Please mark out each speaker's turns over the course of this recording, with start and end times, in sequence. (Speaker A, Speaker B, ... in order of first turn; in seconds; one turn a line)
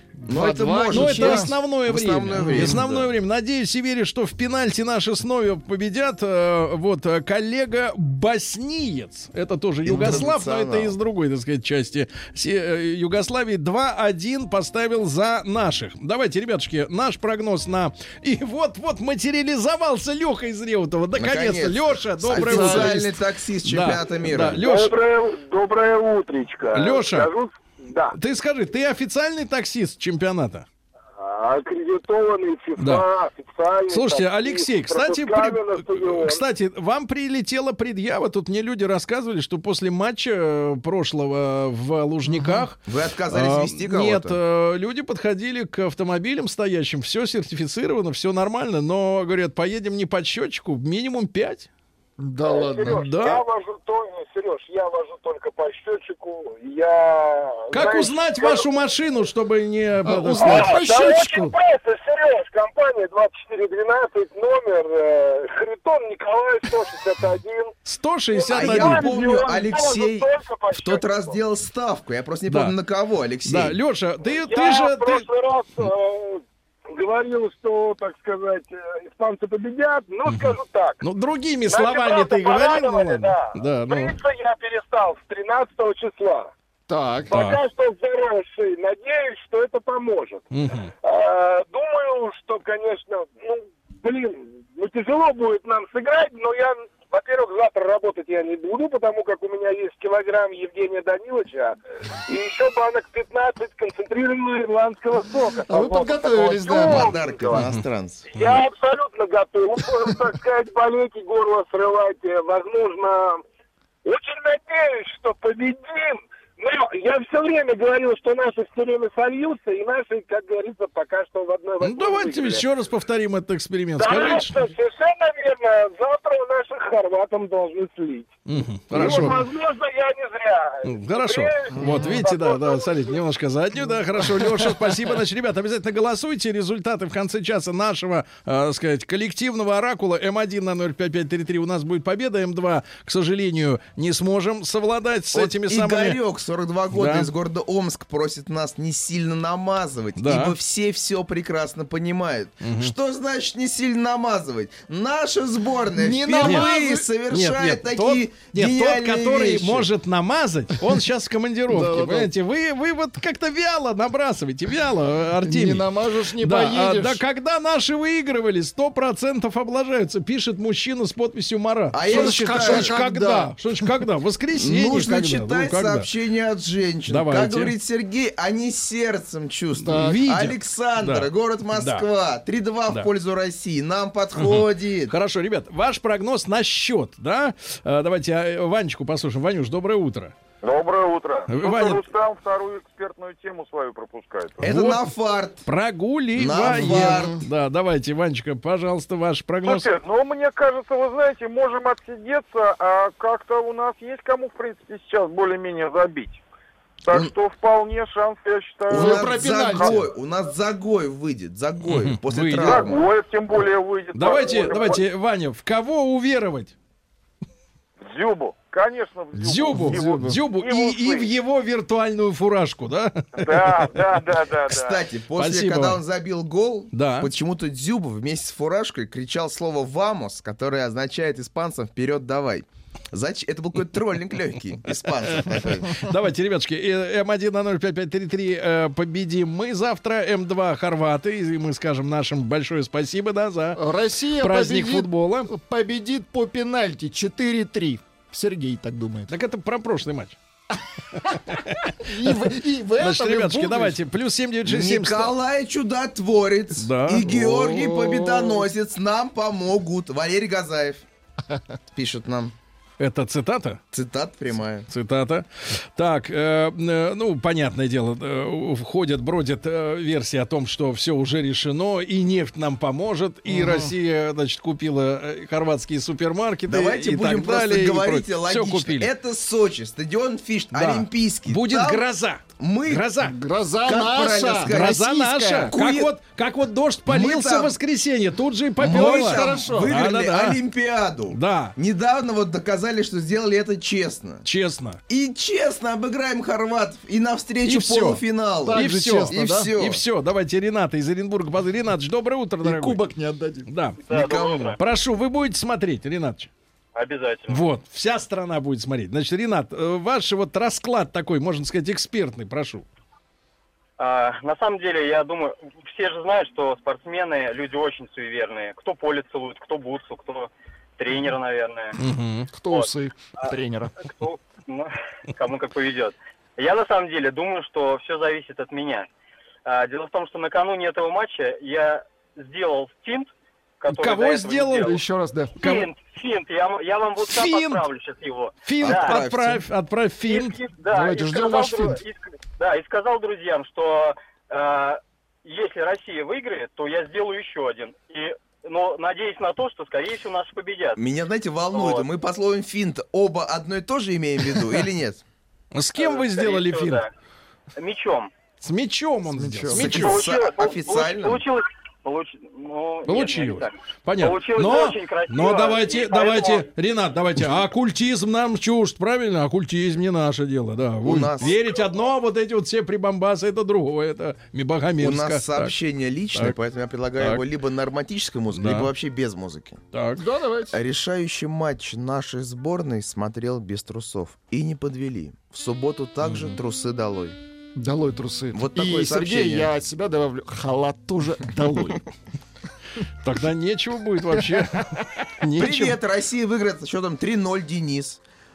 Speaker A: 0.2-1.6
Speaker B: 0.2-3.1
Speaker C: 0.9-24.9
Speaker A: 2.4-2.9
Speaker B: 9.8-10.9
Speaker A: 9.9-10.3
Speaker B: 21.1-24.6
Speaker A: 22.3-23.0
Speaker D: 24.6-28.2
Speaker C: 26.7-27.3
Speaker C: 28.1-30.7
Speaker D: 31.2-36.4
Speaker C: 32.8-33.0
Speaker C: 33.9-51.7
Speaker A: 42.3-42.6
Speaker B: 42.9-44.4
Speaker A: 52.2-53.1
Speaker D: 52.4-58.7
Speaker C: 53.0-53.4
Speaker C: 57.7-60.7
Speaker A: 60.0-61.5
Speaker D: 60.4-67.7
Speaker C: 67.8-69.2
Speaker D: 68.3-71.4
Speaker B: 68.5-73.8
Speaker C: 72.5-72.7
Speaker C: 73.4-75.2
Speaker D: 74.2-81.0
Speaker C: 80.2-84.1
Speaker D: 81.7-86.5
Speaker A: 86.9-87.3
Speaker D: 87.3-90.5
Speaker C: 87.3-87.6
Speaker C: 90.5-90.9
Speaker D: 91.0-107.6
Speaker A: 105.7-107.3
Speaker B: 106.8-108.3
Speaker C: 107.5-107.8
Speaker D: 108.3-113.4
Speaker D: 114.0-122.7
Speaker C: 121.8-124.6
Speaker D: 124.0-128.3
Speaker C: 128.5-129.4
Speaker D: 128.9-133.2
Speaker A: 128.9-129.3
Speaker C: 130.8-146.2
Speaker A: 131.8-132.2
Speaker A: 134.3-135.0
Speaker B: 145.3-159.9
Speaker C: 146.9-147.3
Speaker C: 150.2-150.6
Speaker C: 152.6-152.9
Speaker A: 155.9-157.1
Speaker C: 156.4-176.1
Speaker A: 161.7-162.3
Speaker A: 165.4-167.2
Speaker B: 171.9-173.0
Speaker A: 172.0-174.0
Speaker B: 174.6-185.1
Speaker C: 177.1-177.7
Speaker A: 179.8-180.2
Speaker C: 180.0-182.0
Speaker C: 184.4-190.3
Speaker E: 190.6-194.7
Speaker C: 191.5-192.0
Speaker B: 194.6-195.6
Speaker C: 194.6-195.0
Speaker C: 195.6-199.9
Speaker B: 196.4-197.4
Speaker A: 196.7-197.4
Speaker E: 199.6-206.4
Speaker E: 207.1-210.0
Speaker B: 208.9-213.0
Speaker A: 208.9-210.0
Speaker C: 211.9-212.9
Speaker E: 212.6-215.0
Speaker C: 214.1-216.7
Speaker E: 218.1-221.3
Speaker C: 219.4-223.9
Speaker A: 219.7-220.5
Speaker E: 223.4-225.0
Speaker B: 224.7-236.0
Speaker C: 225.4-226.0
Speaker C: 226.9-227.3
Speaker C: 235.2-243.8
Speaker A: 243.8-249.3
Speaker C: 244.4-245.5
Speaker C: 249.3-250.4
Speaker A: 251.2-254.0
Speaker C: 251.3-255.3
Speaker B: 254.6-261.0
Speaker C: 256.8-257.4
Speaker A: 257.3-258.6
Speaker B: 261.9-262.5
Speaker C: 263.0-263.8
Speaker B: 263.9-264.9
Speaker C: 264.9-279.1
Speaker A: 273.5-273.9
Speaker B: 276.7-282.0
Speaker C: 280.7-283.4
Speaker B: 282.6-283.1
Speaker A: 283.2-285.8
Speaker B: 283.9-286.1
Speaker C: 284.7-290.6
Speaker B: 287.1-287.8
Speaker B: 288.8-294.4
Speaker A: 288.8-290.1
Speaker C: 291.3-291.7
Speaker C: 294.4-295.0
Speaker B: 295.1-300.0
Speaker C: 297.6-298.2
Speaker A: 298.6-299.7
Speaker C: 298.7-303.0
Speaker A: 302.6-303.7
Speaker C: 303.7-306.5
Speaker F: 304.0-304.8
Speaker B: 304.1-304.7
Speaker F: 306.9-307.6
Speaker C: 307.5-312.9
Speaker F: 314.0-322.0
Speaker C: 322.0-322.5
Speaker A: 322.5-323.9
Speaker F: 322.7-329.1
Speaker F: 329.6-334.9
Speaker C: 333.9-334.9
Speaker A: 334.8-335.6
Speaker C: 335.6-335.9
Speaker F: 335.6-339.2
Speaker C: 337.2-337.9
Speaker C: 338.6-340.6
Speaker B: 338.8-339.6
Speaker F: 340.2-351.0
Speaker A: 340.9-342.0
Speaker B: 351.0-355.2
Speaker F: 351.7-352.1
Speaker C: 355.7-357.0
Speaker F: 356.0-357.1
Speaker F: 357.8-358.3
Speaker C: 358.6-360.2
Speaker A: 359.3-360.0
Speaker B: 359.7-361.4
Speaker F: 359.9-366.7
Speaker C: 363.0-375.7
Speaker B: 371.0-371.5
Speaker B: 375.0-379.8
Speaker C: 378.5-378.9
Speaker C: 379.9-380.2
Speaker A: 380.2-380.8
Speaker B: 380.7-387.4
Speaker A: 387.8-392.0
Speaker B: 388.5-389.7
Speaker C: 393.2-396.0
Speaker B: 395.6-398.2